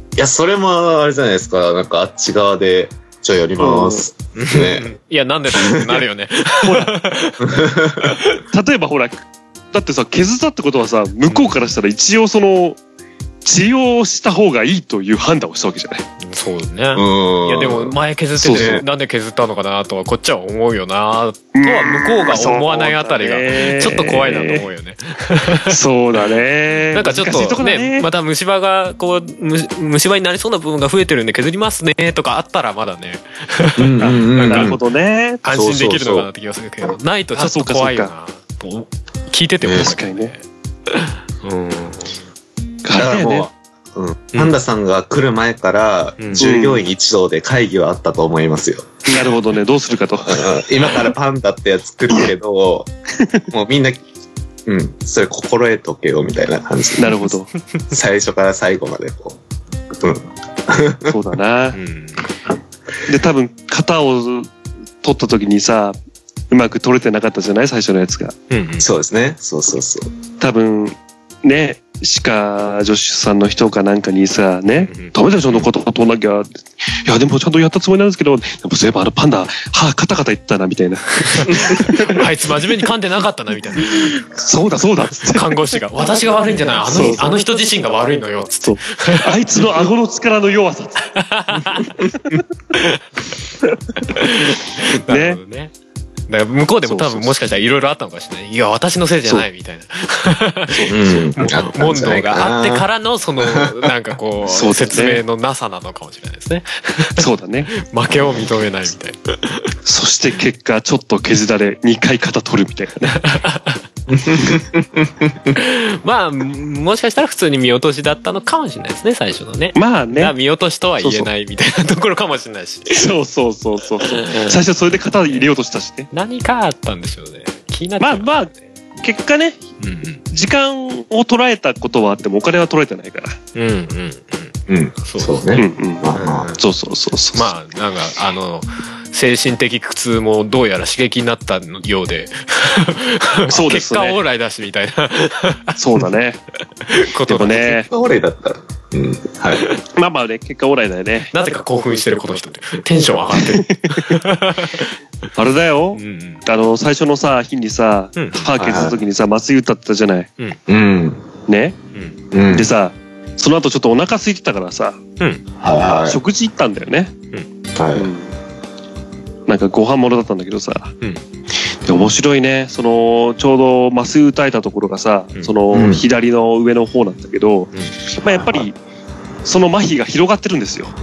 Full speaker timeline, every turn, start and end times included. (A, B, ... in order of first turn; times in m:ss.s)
0:00.2-0:04.9 A
0:03.6-0:04.1 B
0:04.4-0:07.7 C
0:05.5-0:06.0 A
0:06.6-0:07.0 B
0:07.4-0:08.2 A
0:08.3-0:12.8 B
0:11.3-0:11.5 C
0:13.4-0:16.1 B
0:16.2-0:25.8 C
0:16.9-0:18.0 A
0:18.4-0:18.8 B
0:18.5-0:18.8 A
0:21.6-0:24.7 B
0:25.6-0:28.1 B
0:26.9-0:34.8 C
0:33.8-0:34.8 A
0:34.0-0:35.4 B
0:35.4-0:42.2 C
0:35.5-0:36.3 A
0:37.4-0:38.1 B
0:39.6-0:39.9 A
0:39.8-0:40.3 B
0:42.8-0:43.5 B
0:43.0-0:49.1 A
0:46.4-0:46.8 B
0:49.1-0:50.5 B
0:50.3-0:52.9 A
0:53.5-0:54.0 A
0:54.7-0:57.3 A
0:57.0-0:57.5 B
0:57.9-0:59.4 A
0:59.9-1:01.2 A
1:01.1-1:01.8 B
1:01.8-1:02.2 C
1:03.1-1:04.5 B
1:05.0-1:06.0 B
1:06.5-1:08.4 B
1:08.5-1:08.9 C
1:08.8-1:10.1 A
1:10.4-1:22.2 B
1:14.9-1:15.7 C
1:21.4-1:24.2 C
1:23.8-1:25.6 B
1:25.3-1:29.4 C
1:26.8-1:27.5 B
1:28.6-1:31.1 B
1:31.2-1:31.9 C
1:32.8-1:33.0 C
1:34.1-1:35.7 C
1:34.9-1:35.4 B
1:36.3-1:49.7 C
1:36.8-1:37.4 B
1:40.7-1:41.2 B
1:40.9-1:42.9 A
1:43.4-1:43.9 A
1:44.5-1:45.2 B
1:47.2-1:47.7 B
1:49.8-1:53.2 B
1:53.1-1:53.8 C
1:54.1-1:55.6 A
1:55.5-2:03.1 C
1:59.8-2:00.3 B
2:01.0-2:01.3 A
2:02.9-2:06.1 B
2:04.0-2:04.6 C
2:06.1-2:08.6 C
2:08.0-2:08.5 B
2:09.0-2:09.6 B
2:09.8-2:10.2 C
2:10.3-2:13.4 B
2:13.6-2:15.5 C
2:14.7-2:16.5 A
2:15.6-2:17.5 B
2:16.1-2:16.6 C
2:17.3-2:25.8 C
2:23.5-2:24.2 B
2:25.8-2:26.4 B
2:26.9-2:27.8 C
2:27.3-2:27.9 B
2:27.9-2:29.6 A
2:29.9-2:31.4 B
2:31.3-2:34.9 C
2:33.3-2:34.2 B
2:35.4-2:40.3 B
2:36.0-2:36.4 C
2:38.2-2:38.5 C
2:38.6-2:39.0 A
2:40.7-2:41.2 A
2:41.5-2:41.8 B
2:42.3-2:42.7 A
2:42.5-2:45.0 B
2:45.6-2:46.2 A
2:46.0-2:47.2 B
2:47.8-2:48.1 A
2:48.0-2:48.3 B
2:49.5-2:51.0 B
2:51.9-2:58.8 B
2:55.7-2:56.0 A
2:58.3-2:58.7 A
2:59.4-3:00.9 B